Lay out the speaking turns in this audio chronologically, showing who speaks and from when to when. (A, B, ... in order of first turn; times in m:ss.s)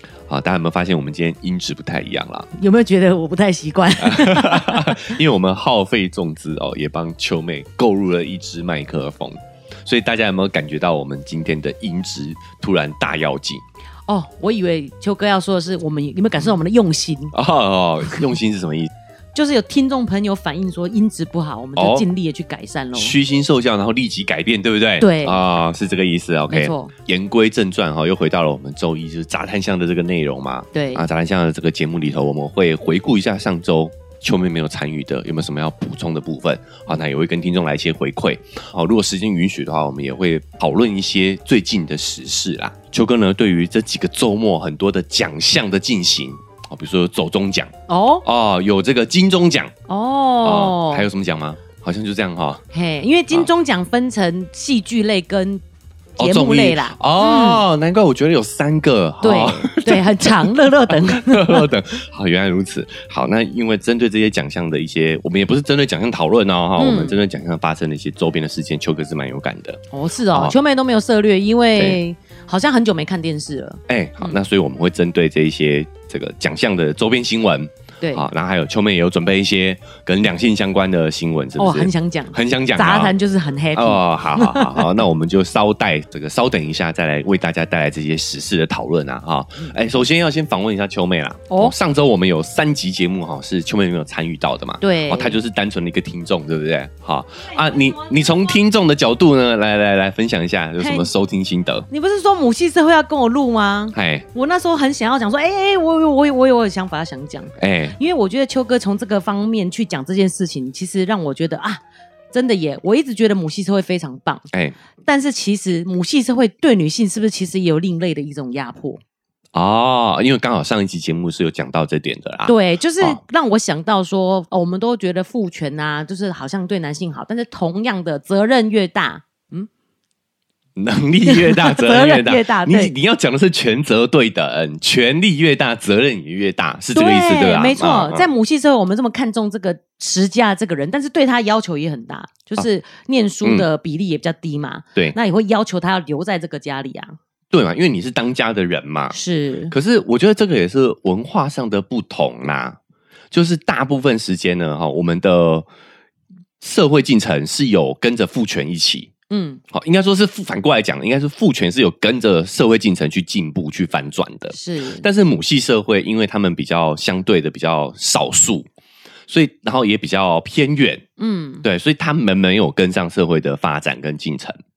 0:00.3-0:02.5 A
0:02.5-0:05.1 B
0:04.0-0:13.6 A
0:14.1-0:17.3 B
0:17.3-0:18.9 A
0:19.3-0:23.2 B
0:21.8-0:22.1 A
0:22.9-0:47.7 A
0:25.0-0:25.4 B
0:26.5-0:26.9 B
0:30.7-0:31.0 B
0:47.9-0:48.2 B
0:48.2-0:49.7 A
0:49.9-0:51.1 B
0:50.4-0:52.6 A
0:52.7-0:55.6 B
0:56.2-0:57.6 B
0:56.2-1:10.6 A
0:59.2-1:01.7 B
1:06.8-1:07.2 B
1:09.9-1:14.4 B
1:13.9-1:23.1 A
1:18.0-1:18.3 B
1:21.6-1:25.0 B
1:23.7-1:41.9 A
1:34.8-1:35.4 B
1:37.5-1:38.1 B
1:40.8-1:41.1 B
1:41.9-1:51.8 B
1:43.9-1:44.2 A
1:47.6-1:48.0 A
1:52.3-1:54.4 B
1:55.0-1:59.0 B
1:59.5-2:03.2 A
2:02.4-2:09.7 B
2:10.8-2:18.3 A
2:11.2-2:12.9 B
2:16.9-2:27.2 B
2:27.5-2:29.2 A
2:29.1-2:29.7 B
2:29.7-2:32.8 A
2:33.3-2:35.7 A
2:36.6-2:39.1 A
2:39.3-2:39.6 B
2:39.7-2:48.7 A
2:44.5-2:45.1 B
2:49.3-2:51.0 A
2:51.2-2:51.6 B
2:51.6-2:54.6 A